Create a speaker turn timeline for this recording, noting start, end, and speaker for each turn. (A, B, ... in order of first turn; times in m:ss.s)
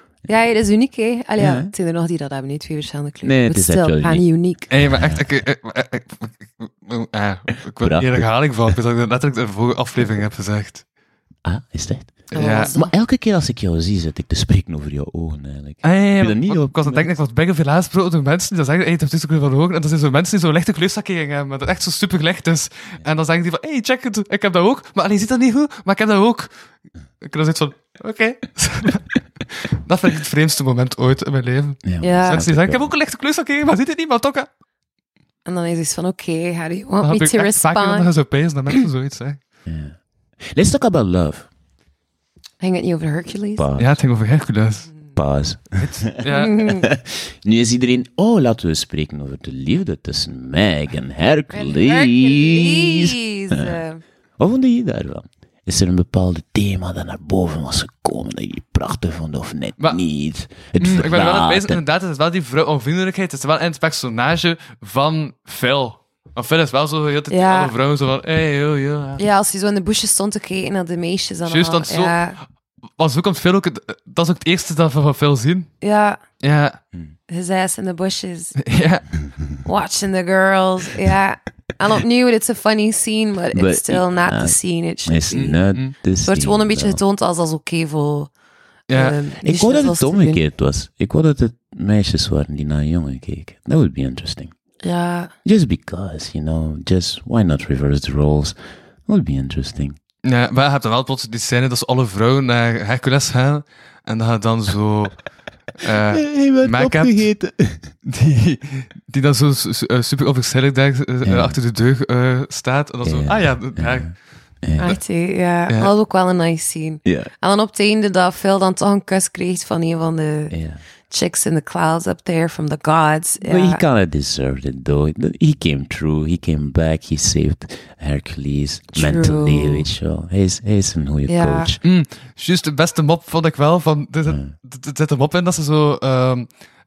0:00.3-0:04.7 A
0:01.4-0:01.7 B
0:03.2-0:04.2 B
0:04.7-0:10.8 C
0:04.8-0:05.2 B
0:07.8-0:08.3 B
0:11.4-0:17.1 B
0:12.3-0:12.7 C
0:12.3-0:12.9 A
0:15.8-0:26.5 C
0:27.2-0:34.5 C
0:31.8-0:32.9 B
0:32.0-0:32.4 A
0:35.4-0:38.1 A
0:37.0-0:39.4 C
0:39.6-0:41.5 B
0:42.6-0:43.7 A
0:43.6-0:44.0 B
0:43.8-0:44.9 C
0:45.1-0:53.8 B
0:45.8-0:46.6 C
0:46.2-0:46.9 A
0:51.5-0:54.0 A
0:54.4-1:01.8 B
1:00.8-1:09.2 C
1:07.3-1:07.7 A
1:09.2-1:12.4 A
1:11.4-1:12.2 C
1:13.0-1:15.7 C
1:15.8-1:16.2 A
1:16.4-1:16.8 C
1:17.3-1:18.6 A
1:18.6-1:19.1 C
1:19.6-1:25.6 A
1:23.5-1:27.0 B
1:25.3-1:25.9 C
1:26.2-1:28.3 A
1:28.9-1:29.2 C
1:28.9-1:30.4 A
1:29.4-1:34.5 B
1:34.8-1:35.3 A
1:35.4-1:38.5 B
1:39.1-1:40.0 B
1:40.2-1:47.3 C
1:46.1-1:47.9 B
1:48.0-1:54.2 C
1:51.2-1:51.6 B
1:53.0-1:54.1 B
1:54.6-1:54.9 B
1:54.8-2:00.5 A
1:57.0-1:57.3 B
2:00.5-2:00.8 B
2:01.1-2:03.8 A
2:03.4-2:11.8 B
2:08.9-2:09.9 A
2:11.3-2:11.7 A
2:11.8-2:16.5 C